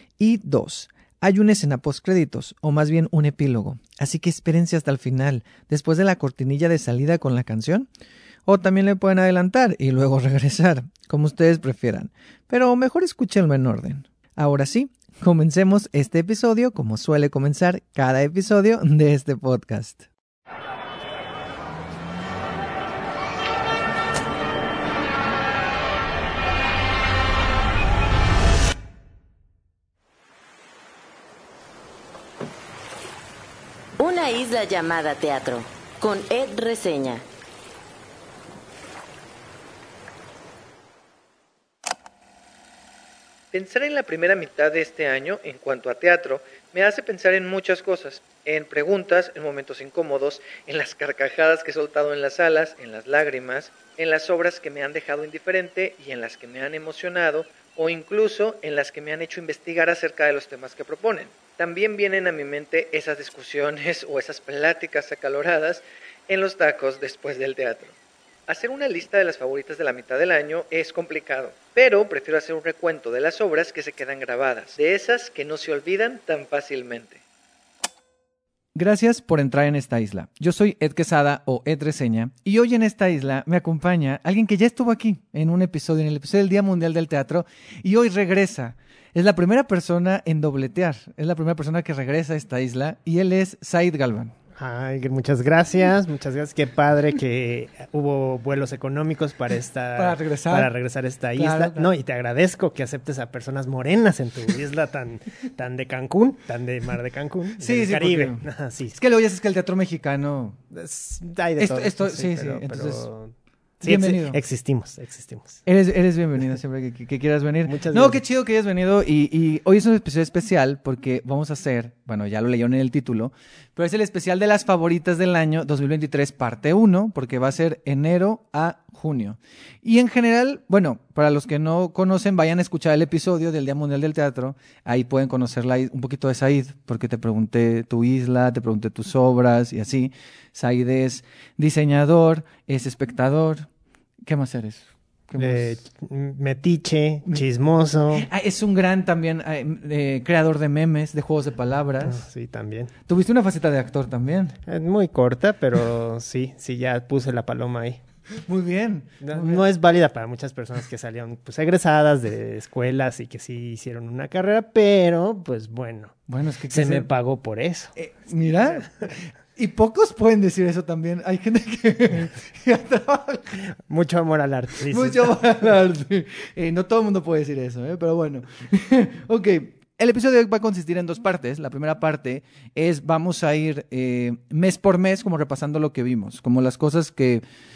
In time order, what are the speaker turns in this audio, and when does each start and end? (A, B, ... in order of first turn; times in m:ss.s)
0:00.2-0:07.9 A
0:08.5-0:20.1 A
0:34.0-0:37.2 B
0:43.5-1:08.0 A
1:08.5-1:17.2 A
1:18.8-1:34.3 A
1:34.6-1:49.0 C
1:40.0-1:40.7 A
1:41.4-1:41.9 A
1:47.6-1:50.6 A
1:50.7-1:55.6 C
1:51.6-1:53.1 A
1:53.8-1:54.4 A
1:55.7-2:23.7 A
1:57.7-1:58.2 C
2:24.3-2:25.8 A
2:25.4-2:28.3 C
2:28.1-2:32.2 A
2:32.0-2:32.9 C
2:33.1-2:34.6 A
2:34.7-2:38.0 C
2:38.4-2:39.6 A
2:39.2-2:48.0 C
2:46.3-2:47.1 A
2:48.0-2:53.7 A
2:48.7-2:49.1 C
2:53.8-2:55.7 C
2:54.9-3:07.4 A